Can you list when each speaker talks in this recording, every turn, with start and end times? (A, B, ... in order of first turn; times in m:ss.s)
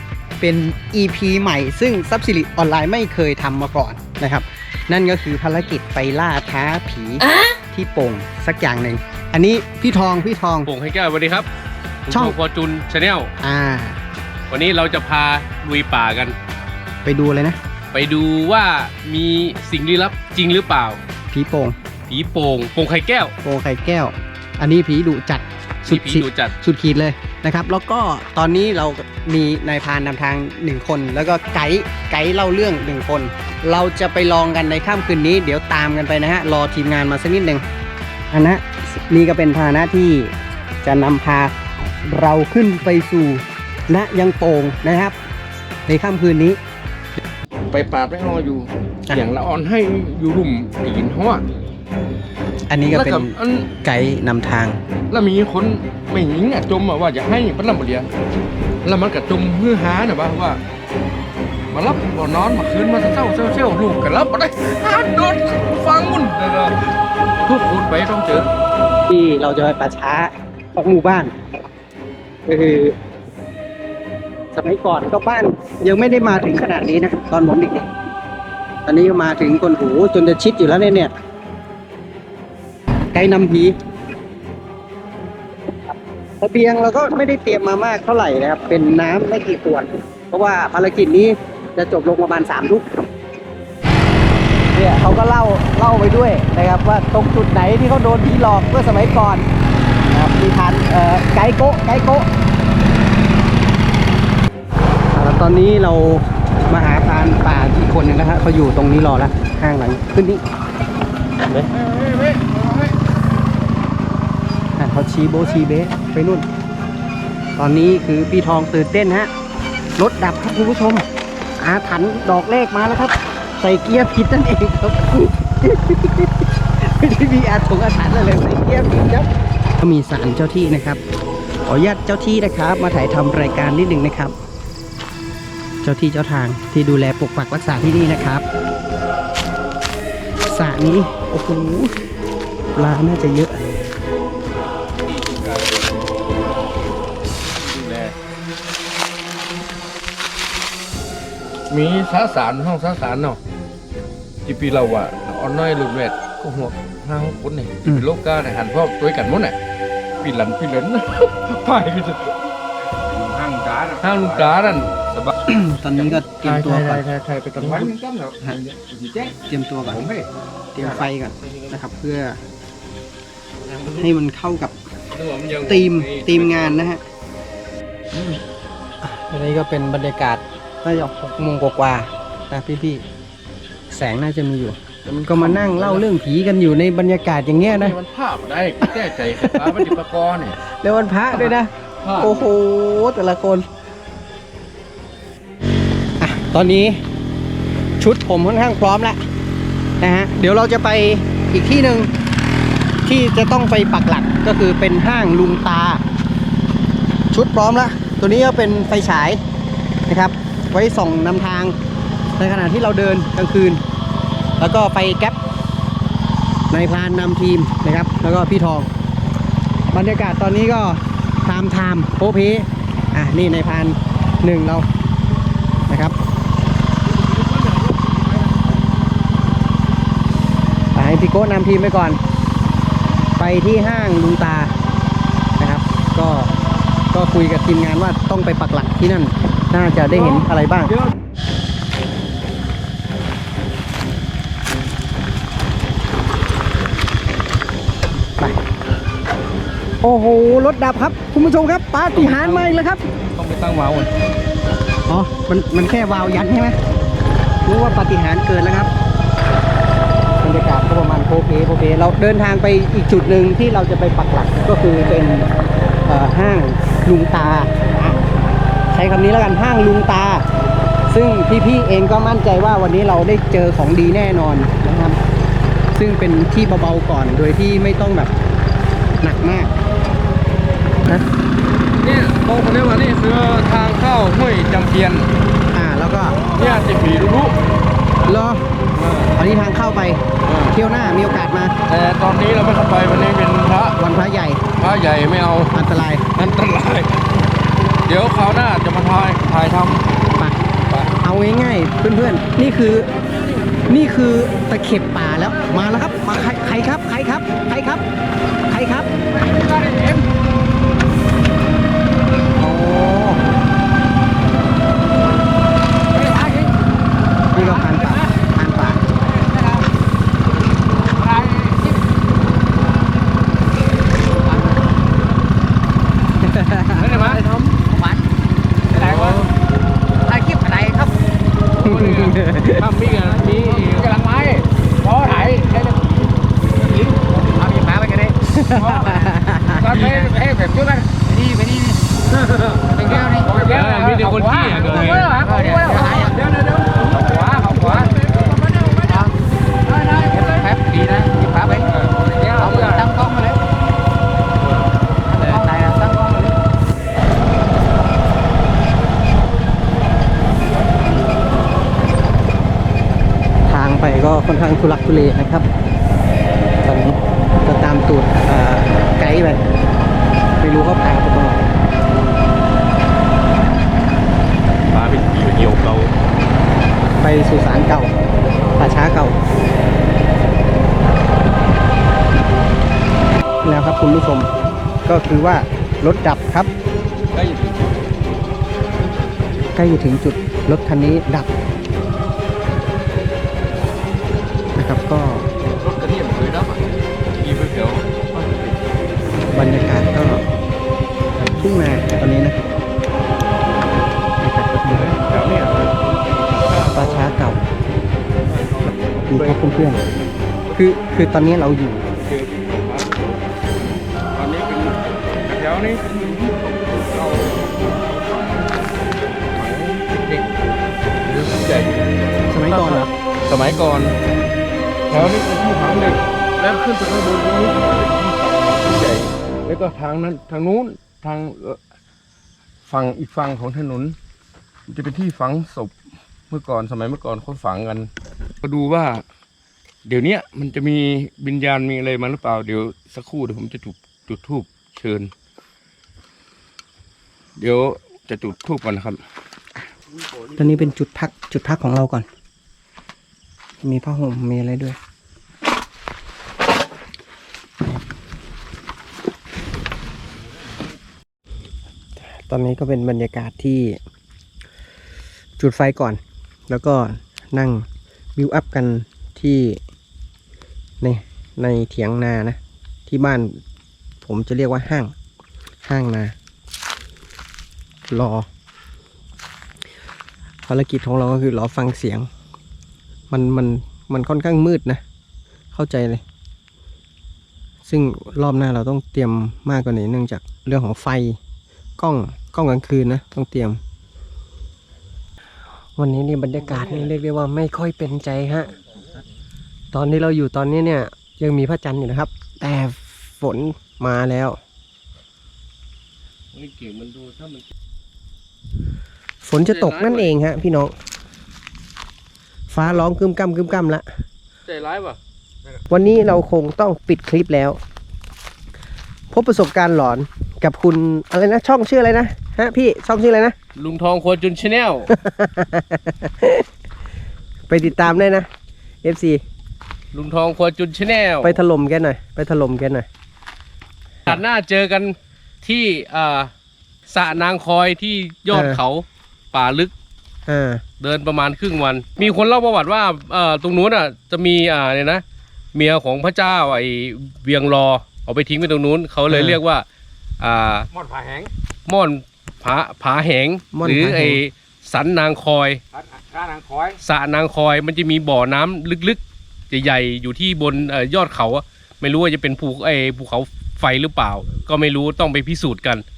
0:00.4-0:10.7 A
0:10.6-0:11.5 B
0:12.0-0:13.3 B
0:12.1-0:12.4 A
0:13.4-0:14.0 A
0:14.5-0:16.4 B
0:17.0-0:17.6 A
0:17.9-0:21.0 B
0:21.3-0:21.8 A
0:22.1-0:23.3 B
0:23.4-0:37.6 A
0:25.9-0:26.5 B
0:38.3-0:45.2 A
0:45.9-0:46.6 A
0:47.7-0:51.4 C
0:52.7-0:54.8 A
0:52.9-0:53.7 C
0:55.1-0:58.1 C
0:58.8-1:00.6 C
1:01.7-1:06.8 C
1:07.4-1:08.5 C
1:09.1-1:11.3 A
1:12.5-1:13.0 A
1:14.5-1:17.9 A
1:18.9-1:21.1 A
1:23.1-1:23.8 A
1:26.4-1:32.9 A
1:34.7-1:39.4 A
1:40.1-1:42.3 A
1:45.1-1:50.4 A
1:51.8-1:52.5 C
1:54.8-1:56.4 A
1:57.6-1:59.3 A
2:00.0-2:01.0 A
2:01.6-2:09.3 A
2:09.8-2:11.0 A
2:11.7-2:14.3 A
2:15.8-2:18.4 A
2:20.4-2:21.9 A
2:22.7-2:23.6 A
2:25.0-2:25.8 C
2:27.6-2:28.1 C
2:31.7-2:33.4 C
2:34.4-2:39.6 C
2:40.2-2:42.5 C
2:43.1-2:45.3 C
2:44.0-2:44.5 B
2:45.4-2:47.0 A
2:46.0-2:49.3 C
2:49.4-2:50.0 A
2:49.9-2:50.3 C
2:50.7-2:52.4 A
2:50.8-2:51.1 C
2:53.9-2:54.7 A
2:55.1-2:56.9 C
2:55.6-2:57.0 A
2:59.0-3:03.0 A
3:03.9-3:08.0 A
3:05.0-3:06.0 C
3:07.7-3:10.6 C
3:09.4-3:09.9 A
3:10.8-3:13.6 A
3:11.3-3:12.4 C
3:16.2-3:17.0 A
3:18.0-3:19.2 A
3:20.0-3:22.1 A
3:23.0-3:26.0 A
3:27.3-3:29.4 A
3:30.1-3:31.7 A
3:32.4-3:33.8 A
3:34.6-3:35.4 A
3:36.7-3:38.9 A
3:39.9-3:44.9 A
3:45.9-3:46.2 A
3:47.5-3:48.6 C
3:50.9-3:52.2 A
3:53.4-3:54.7 A
3:55.6-3:56.5 A
3:57.1-4:00.9 A
4:00.1-4:00.4 C
4:10.0-4:13.0 A
4:12.1-4:12.7 C
4:13.4-4:14.0 C
4:15.1-4:16.8 A
4:17.6-4:18.9 A
4:20.4-4:25.5 A
4:26.1-4:28.2 A
4:28.9-4:30.4 A
4:31.1-4:35.2 A
4:35.9-4:38.3 A
4:39.2-4:39.7 A
4:42.0-4:45.3 C
4:45.7-4:46.4 A
4:46.5-4:47.6 C
4:48.2-4:48.6 A
4:48.9-4:49.3 C
4:49.3-4:51.7 A
4:50.4-4:50.8 C
4:51.9-4:54.0 C
4:54.0-4:54.6 A
4:54.8-4:55.7 C
4:55.7-4:56.2 A
4:56.3-4:57.2 C
4:58.1-5:00.0 C
5:01.2-5:03.1 A
5:03.9-5:08.0 A
5:08.7-5:09.1 A
5:09.4-5:10.1 C
5:12.6-5:13.4 A
5:16.1-5:16.7 D
5:17.5-5:18.3 D
5:17.5-5:19.0 A
5:19.2-5:19.9 D
5:21.2-5:22.0 D
5:21.3-5:21.8 C
5:24.3-5:24.9 D
5:26.4-5:27.2 A
5:27.0-5:27.4 B
5:27.3-5:27.8 C
5:27.8-5:28.2 D
5:28.9-5:29.4 D
5:30.2-5:31.1 D
5:31.8-5:32.9 A
5:31.8-5:34.1 B
5:33.5-5:36.1 D
5:36.8-5:39.4 D
5:38.6-5:39.9 A
5:38.7-5:41.0 C
5:39.9-5:42.0 D
5:42.3-5:49.3 C
5:42.9-5:43.6 D
5:43.5-5:45.4 B
5:44.3-5:46.4 D
5:47.0-5:48.1 D
5:49.0-5:49.3 D
5:49.8-5:50.7 C
5:50.2-5:52.0 D
5:51.9-5:53.2 C
5:52.5-5:53.6 D
5:55.3-5:56.6 D
6:03.7-6:05.6 A
6:06.8-6:09.6 A
6:10.6-6:11.7 A
6:14.9-6:16.1 C
6:17.2-6:18.1 A
6:18.8-6:19.4 A
6:23.6-6:24.5 A
6:25.1-6:26.7 A
6:27.3-6:28.1 C
6:29.7-6:31.5 A
6:34.8-6:35.5 A
6:35.8-6:38.4 C
6:39.5-6:40.4 A
6:41.4-6:42.6 A
6:44.4-6:45.1 A
6:44.9-6:47.3 C
6:46.9-6:47.6 A
6:48.5-6:50.8 C
6:49.3-6:50.0 A
6:50.7-6:52.1 A
6:52.2-6:53.3 C
6:54.3-7:00.4 C
7:01.2-7:02.1 C
7:02.5-7:03.1 A
7:02.7-7:04.2 C
7:05.1-7:11.8 C
7:12.9-7:14.2 C
7:14.9-7:15.9 C
7:16.5-7:18.1 C
7:18.6-7:19.2 C
7:20.1-7:25.3 C
7:27.6-7:29.2 C
7:30.5-7:32.2 A
7:33.8-7:35.0 A
7:42.2-7:44.0 A
7:45.6-7:49.8 A
7:51.0-7:53.6 A
7:54.2-7:55.1 A
7:55.8-7:56.3 A
7:58.1-7:58.5 A
8:00.6-8:02.3 A
8:03.3-8:05.0 A
8:05.7-8:06.2 A
8:07.9-8:11.4 A
8:12.0-8:13.8 A
8:16.0-8:18.7 A
8:19.9-8:24.6 A
8:26.5-8:27.6 B
8:29.4-8:30.9 A
8:29.7-8:30.3 B
8:32.7-8:34.1 A
8:34.7-8:35.2 B
8:35.9-8:37.8 A
8:39.3-8:43.6 A
8:43.8-8:45.1 B
8:45.1-8:46.7 A
8:47.7-8:48.5 A
8:49.0-8:49.4 A
8:50.1-8:51.6 B
8:51.4-8:53.1 A
8:54.3-8:56.5 B
8:57.1-8:59.9 B
8:58.5-8:58.8 A
9:00.5-9:00.8 A
9:01.0-9:05.2 B
9:05.7-9:09.8 B
9:09.3-9:09.6 A
9:10.4-9:10.9 B
9:11.0-9:11.5 C
9:11.9-9:15.8 B
9:13.7-9:14.4 A
9:16.1-9:17.0 C
9:17.0-9:26.0 B